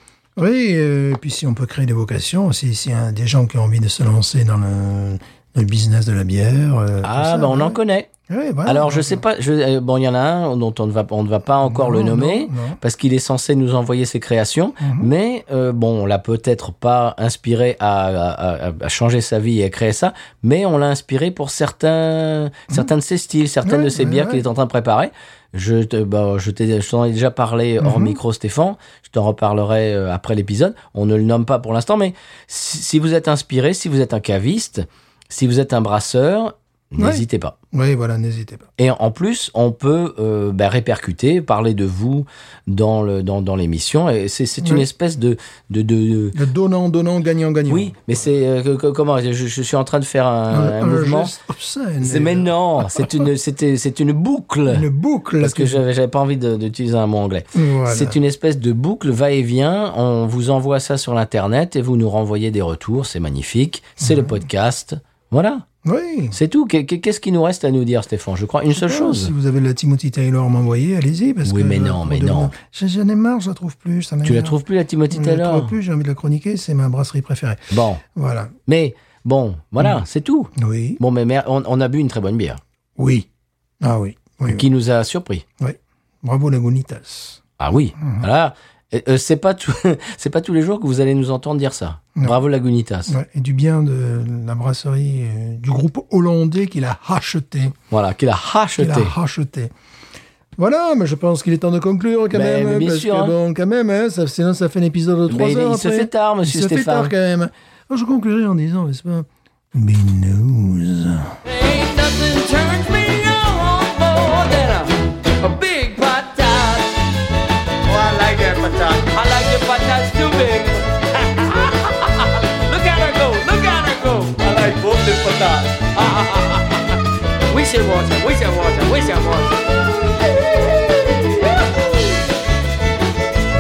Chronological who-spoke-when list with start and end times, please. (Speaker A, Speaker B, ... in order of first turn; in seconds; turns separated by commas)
Speaker A: 0.4-9.2, Speaker B: 7.0-8.1, Speaker B: 8.7-37.6, Speaker A: 11.6-12.8, Speaker A: 14.8-15.1, Speaker A: 23.6-24.4, Speaker A: 27.8-28.2, Speaker A: 37.0-38.7, Speaker B: 38.8-46.4, Speaker A: 46.3-47.9, Speaker B: 47.7-51.4, Speaker A: 50.5-53.1, Speaker B: 52.0-54.9, Speaker A: 54.7-55.8, Speaker B: 55.4-65.7, Speaker A: 57.5-58.2, Speaker A: 64.0-64.3, Speaker A: 65.8-66.4, Speaker B: 66.3-69.3, Speaker A: 68.7-78.5, Speaker B: 71.5-72.5, Speaker B: 74.2-75.7, Speaker B: 77.7-78.0, Speaker B: 78.7-82.6, Speaker A: 80.6-81.0, Speaker A: 83.0-83.3, Speaker A: 83.8-84.7, Speaker B: 84.5-85.4, Speaker A: 85.6-87.4, Speaker B: 87.6-93.2, Speaker A: 88.0-88.3, Speaker A: 93.1-97.8, Speaker B: 97.9-99.1, Speaker A: 98.8-99.7, Speaker A: 100.6-111.4, Speaker B: 102.3-103.3, Speaker B: 105.3-107.1, Speaker C: 111.5-116.9, Speaker B: 113.8-114.9, Speaker B: 115.8-116.4, Speaker B: 117.9-120.7, Speaker C: 118.1-121.9, Speaker B: 121.4-122.0, Speaker B: 122.6-126.8, Speaker C: 122.7-126.4, Speaker B: 127.5-129.5, Speaker C: 127.5-131.4